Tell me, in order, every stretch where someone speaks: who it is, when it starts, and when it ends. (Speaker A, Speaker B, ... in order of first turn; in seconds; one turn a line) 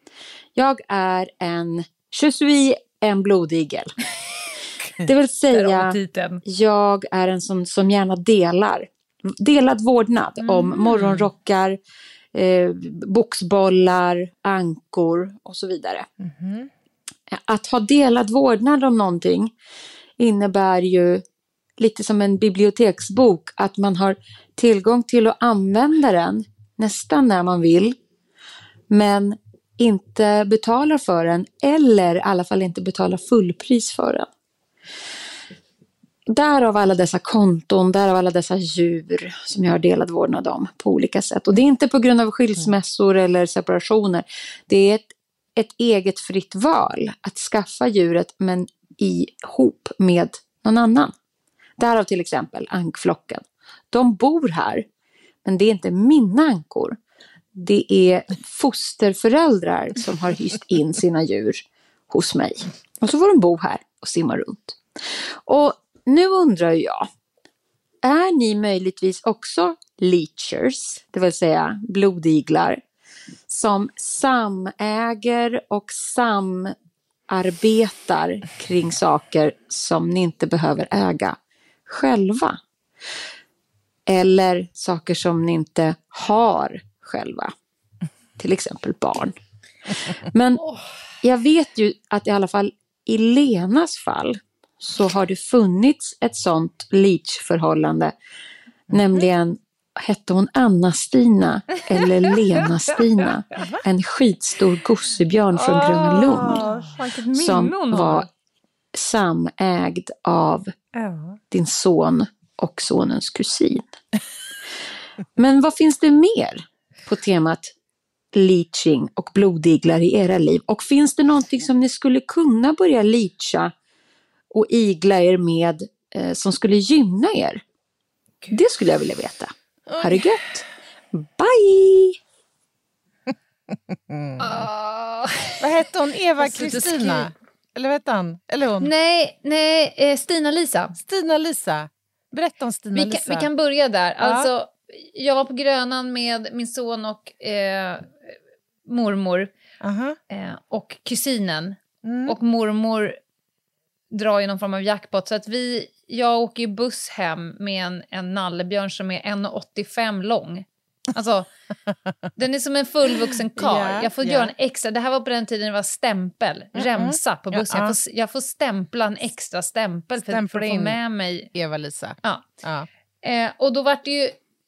Speaker A: 0.6-4.0
Speaker A: 5.0-6.0
Speaker B: 5.5-6.4
Speaker A: 6.5-11.8
Speaker B: 10.4-11.2
Speaker A: 12.3-16.1
Speaker C: 16.2-16.7
Speaker A: 17.3-19.5
Speaker A: 20.2-21.2
Speaker A: 21.8-28.0
Speaker A: 28.9-34.3
Speaker A: 36.3-51.1
Speaker A: 51.8-54.9
Speaker A: 55.5-57.0
Speaker A: 57.5-64.8
Speaker A: 65.5-67.1
Speaker A: 68.0-72.8
Speaker A: 73.5-76.7
Speaker A: 77.3-82.6
Speaker A: 84.1-87.5
Speaker A: 88.4-89.3
Speaker A: 89.9-90.6
Speaker A: 91.2-98.2
Speaker A: 98.9-106.6
Speaker C: 103.6-103.8
Speaker B: 105.6-108.3
Speaker C: 105.7-107.0
Speaker A: 107.3-108.3
Speaker A: 108.9-110.8
Speaker C: 110.9-111.4
Speaker A: 111.5-113.8
Speaker A: 115.4-117.7
Speaker A: 118.3-123.7
Speaker A: 124.5-127.6
Speaker A: 128.5-132.2
Speaker C: 129.9-130.3
Speaker C: 133.9-134.7
Speaker B: 134.4-135.6
Speaker C: 135.6-138.9
Speaker B: 136.4-137.3
Speaker B: 138.8-140.9
Speaker C: 140.9-143.5
Speaker B: 142.9-148.3
Speaker C: 144.2-144.5
Speaker B: 148.9-149.5
Speaker C: 149.8-150.2
Speaker B: 150.3-153.2
Speaker C: 152.0-152.4
Speaker B: 154.1-161.5
Speaker B: 162.4-171.5
Speaker C: 163.6-164.5
Speaker C: 166.8-168.0
Speaker C: 170.2-171.0
Speaker C: 171.5-172.9
Speaker B: 173.2-174.4